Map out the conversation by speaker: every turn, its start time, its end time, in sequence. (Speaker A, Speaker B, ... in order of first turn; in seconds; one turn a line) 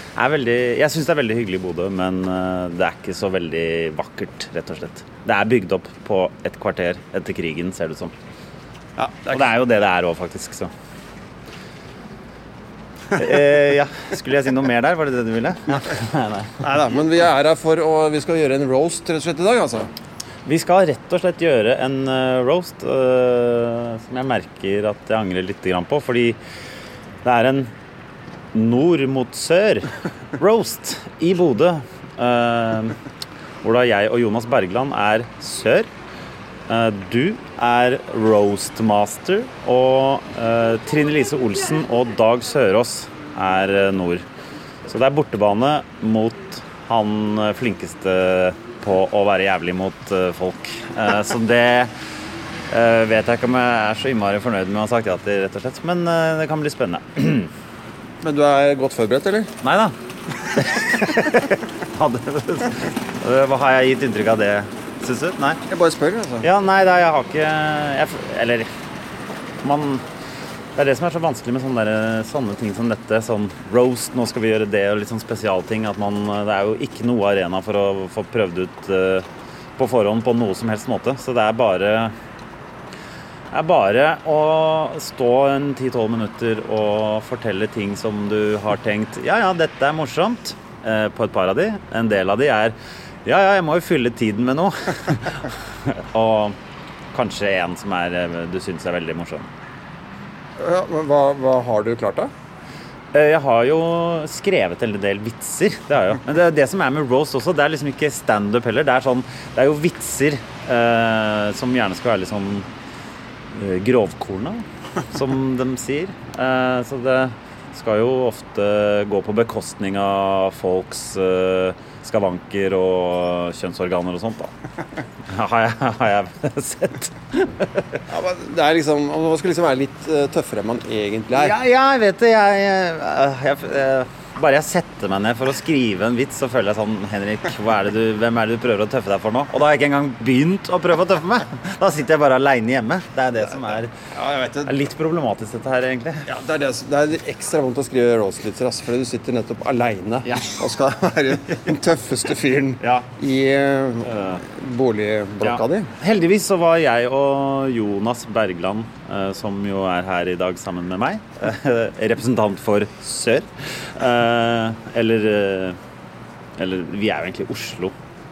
Speaker A: 0.2-8.1
Speaker B: 9.0-9.5
Speaker A: 9.3-10.7
Speaker A: 13.1-16.6
Speaker B: 16.6-19.9
Speaker A: 20.4-26.4
Speaker A: 27.2-27.7
Speaker A: 28.5-33.0
Speaker A: 33.6-35.9
Speaker A: 36.7-44.2
Speaker A: 44.9-51.9
Speaker A: 52.7-57.5
Speaker B: 58.2-59.5
Speaker A: 59.6-60.0
Speaker A: 60.5-65.6
Speaker B: 65.7-66.5
Speaker A: 66.4-68.7
Speaker A: 69.6-70.0
Speaker A: 70.8-82.2
Speaker A: 83.5-96.6
Speaker A: 97.1-99.5
Speaker B: 100.6-102.3
Speaker A: 103.1-112.7
Speaker A: 113.5-124.5
Speaker A: 125.3-128.0
Speaker B: 128.1-131.6
Speaker A: 131.3-143.9
Speaker B: 143.6-144.8
Speaker A: 144.6-146.3
Speaker B: 146.2-155.9
Speaker A: 150.2-150.6
Speaker A: 152.8-153.1
Speaker A: 154.1-154.4
Speaker A: 155.4-165.8
Speaker A: 166.6-167.9